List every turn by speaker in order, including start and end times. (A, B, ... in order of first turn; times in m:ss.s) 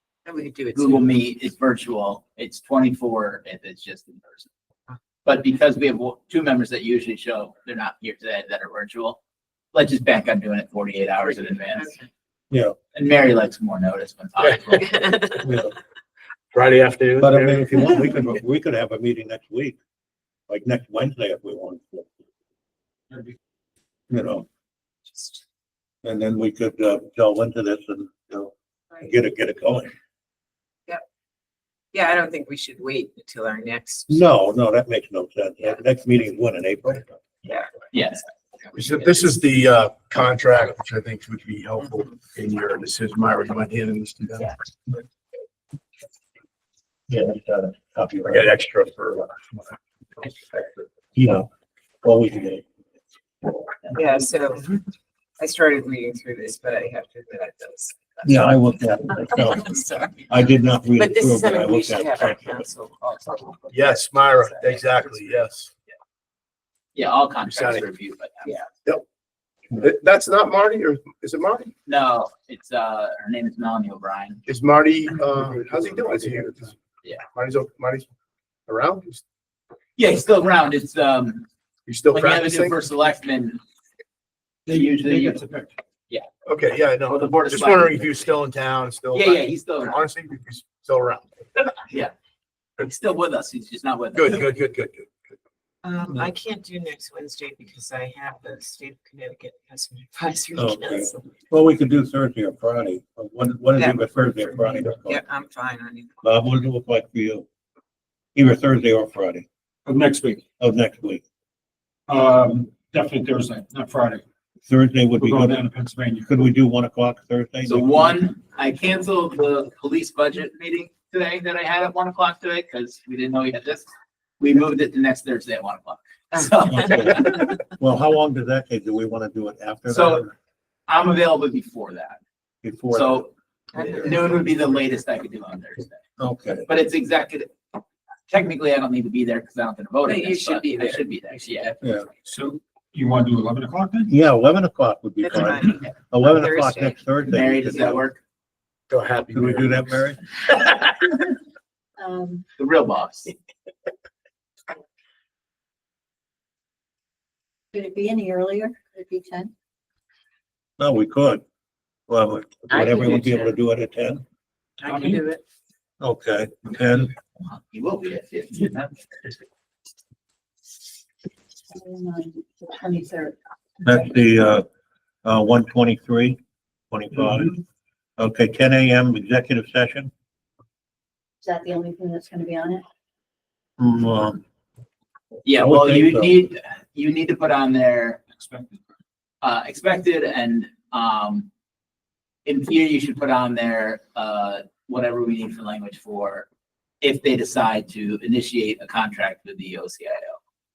0:00.2-0:01.1 A
0:00.7-0:04.5 B
0:05.2-0:09.2 B
0:09.7-0:11.9 B
0:11.7-0:11.9 A
0:12.5-0:12.8 C
0:12.9-0:15.0 B
0:15.0-0:15.3 A
0:15.4-0:15.7 C
0:16.5-0:17.8 D
0:17.2-0:19.8 C
0:20.5-0:22.1 C
0:24.1-0:24.5 C
0:25.1-0:25.4 A
0:26.0-0:29.9 C
0:31.9-0:34.1 A
0:34.1-0:37.1 C
0:37.4-0:37.7 A
0:37.9-0:38.2 B
0:38.6-0:38.9 A
0:38.7-0:44.5 D
0:47.1-0:48.5 C
0:48.3-0:50.8 D
0:51.1-0:51.5 C
0:52.0-0:52.6 C
0:53.9-0:54.8 A
0:55.4-0:58.6 A
0:58.2-1:02.6 C
0:59.1-1:00.3 A
1:01.0-1:04.9 A
1:03.7-1:05.7 D
1:06.9-1:08.5 B
1:07.4-1:07.8 D
1:09.7-1:11.7 D
1:11.8-1:14.4 B
1:14.4-1:16.7 D
1:17.3-1:18.0 D
1:18.7-1:19.2 D
1:20.0-1:21.4 B
1:21.8-1:22.8 D
1:22.1-1:23.6 B
1:24.7-1:25.7 E
1:24.7-1:25.4 B
1:26.4-1:31.3 D
1:27.1-1:28.3 B
1:29.1-1:30.0 B
1:32.8-1:34.4 B
1:34.1-1:35.1 D
1:35.8-1:41.3 A
1:40.6-1:45.2 C
1:43.8-1:46.2 A
1:46.2-1:47.4 C
1:48.3-1:49.4 C
1:49.8-1:50.4 E
1:50.6-1:51.2 C
1:52.1-1:54.2 E
1:54.7-1:55.6 C
1:55.2-1:56.4 E
1:56.2-1:58.1 C
1:57.6-2:03.9 B
2:04.4-2:07.4 B
2:06.6-2:10.3 C
2:09.9-2:10.2 B
2:10.9-2:12.2 B
2:12.6-2:13.2 C
2:12.9-2:16.0 B
2:13.7-2:14.3 A
2:16.2-2:16.7 C
2:16.7-2:17.6 B
2:18.3-2:21.7 B
2:20.0-2:22.1 A
2:21.8-2:22.1 C
2:22.2-2:24.1 E
2:24.1-2:28.1 C
2:25.2-2:27.0 A
2:27.3-2:28.2 B
2:28.9-2:29.9 D
2:29.3-2:30.3 C
2:32.0-2:32.4 F
2:32.6-2:33.3 B
2:37.7-2:39.5 F
2:40.8-2:41.4 C
2:42.1-2:44.2 C
2:42.7-2:43.5 A
2:44.8-2:45.4 A
2:44.8-2:45.2 E
2:46.0-2:47.1 C
2:47.4-2:49.3 B
2:51.7-2:53.4 F
2:53.8-2:54.6 C
2:55.2-2:56.4 C
2:56.9-2:57.6 C
2:58.2-3:00.1 C
3:01.4-3:02.8 F
3:03.8-3:04.4 C
3:05.4-3:08.2 B
3:05.5-3:06.4 C
3:08.3-3:08.8 E
3:09.4-3:11.5 B
3:12.4-3:16.5 B
3:17.0-3:20.4 B